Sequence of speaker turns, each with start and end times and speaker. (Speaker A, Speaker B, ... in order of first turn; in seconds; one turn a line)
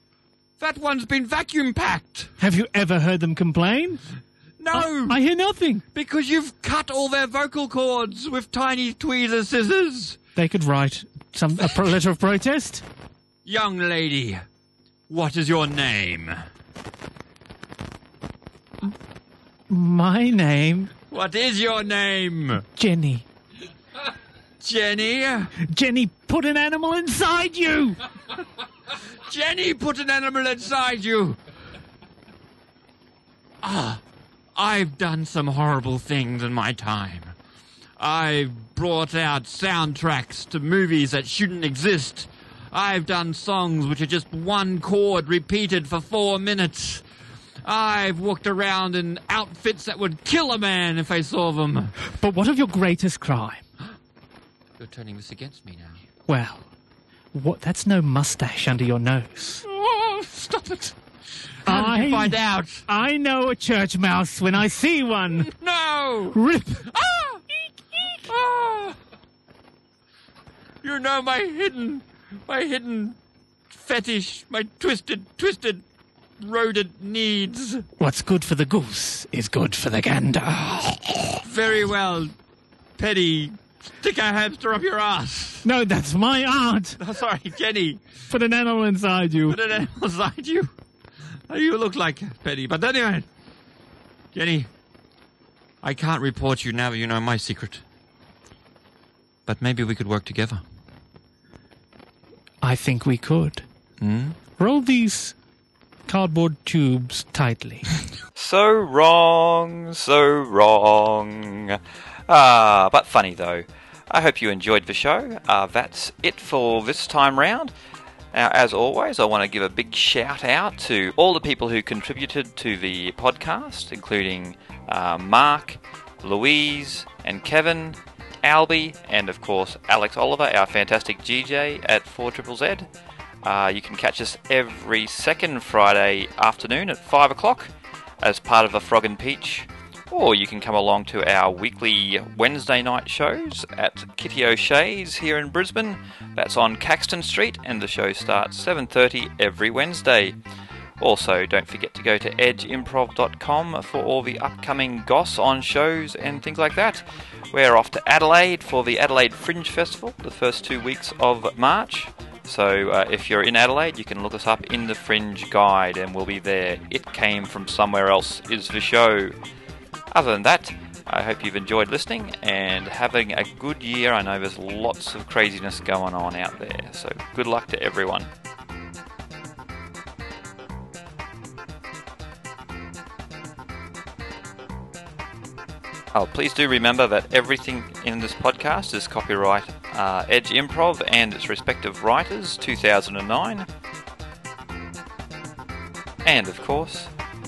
Speaker A: 0.6-2.3
Speaker B: 2.4-4.0
Speaker A: 4.6-5.2
Speaker B: 4.7-5.8
Speaker A: 5.9-10.2
Speaker B: 10.4-12.8
Speaker A: 13.4-14.4
Speaker A: 15.1-16.4
Speaker B: 19.7-20.9
Speaker A: 21.1-22.6
Speaker B: 22.8-23.3
Speaker A: 24.6-25.5
Speaker B: 25.6-28.0
Speaker A: 29.3-31.4
Speaker A: 33.6-34.0
Speaker A: 34.5-37.3
Speaker A: 38.0-47.0
Speaker A: 47.6-51.9
Speaker B: 52.1-53.6
Speaker A: 54.8-56.0
Speaker B: 56.3-56.7
Speaker B: 57.3-59.6
Speaker A: 59.6-61.0
Speaker A: 61.6-62.9
Speaker B: 61.7-65.5
Speaker A: 65.5-66.4
Speaker B: 66.3-66.8
Speaker A: 66.9-67.4
Speaker A: 68.2-69.0
Speaker A: 70.8-73.2
Speaker A: 73.7-75.8
Speaker A: 76.4-77.9
Speaker B: 78.0-81.4
Speaker A: 81.5-82.3
Speaker A: 83.0-85.7
Speaker B: 85.6-87.0
Speaker A: 87.0-88.0
Speaker B: 88.3-89.6
Speaker A: 89.5-90.7
Speaker A: 91.5-93.3
Speaker A: 94.3-94.7
Speaker A: 95.8-97.8
Speaker A: 99.5-100.6
Speaker B: 102.6-103.7
Speaker A: 104.0-104.4
Speaker B: 104.6-105.3
Speaker B: 106.1-107.9
Speaker C: 108.4-117.7
Speaker C: 118.3-132.9
Speaker C: 133.4-150.4
Speaker C: 151.0-169.3
Speaker C: 170.1-178.3
Speaker C: 186.1-193.7
Speaker C: 196.2-197.1